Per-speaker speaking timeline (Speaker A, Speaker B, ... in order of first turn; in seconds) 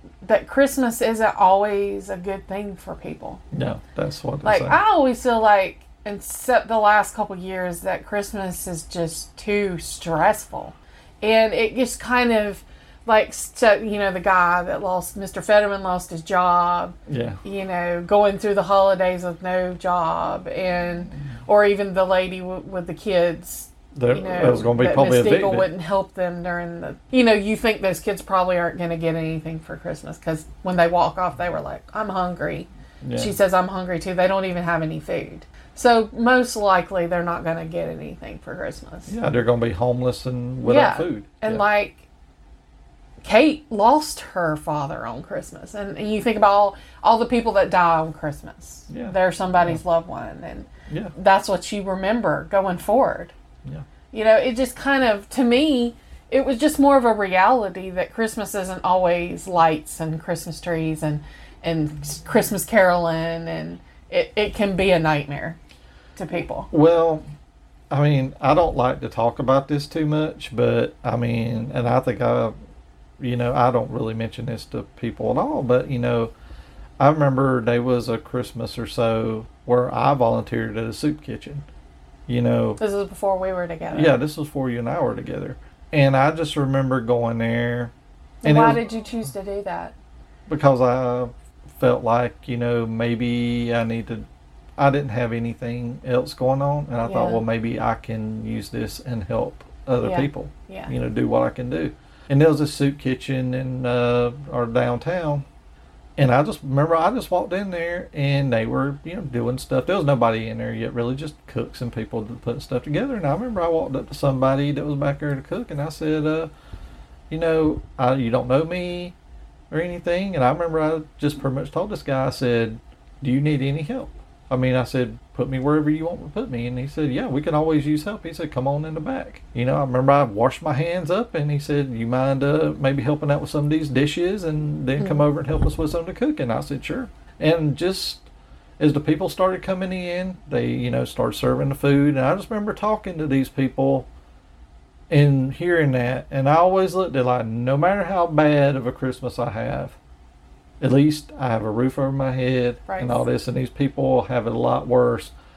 Speaker A: 0.2-3.4, 4.4-39.1, 40.6-42.0, 43.2-53.3, 54.1-65.6, 66.2-66.7, 82.8-84.2, 88.4-89.9, 97.0-97.4, 100.0-100.9, 152.9-153.2
Speaker B: 3.5-4.8, 17.1-17.4, 23.9-25.7, 33.0-33.3, 39.1-41.6, 48.9-49.8, 50.9-51.1, 66.7-67.2, 67.9-72.5, 73.2-76.3, 77.0-81.6, 82.3-82.8, 83.9-87.9, 88.4-88.8, 90.5-105.4, 106.2-116.5, 117.3-119.1, 119.7-144.1, 145.1-150.0, 150.8-155.3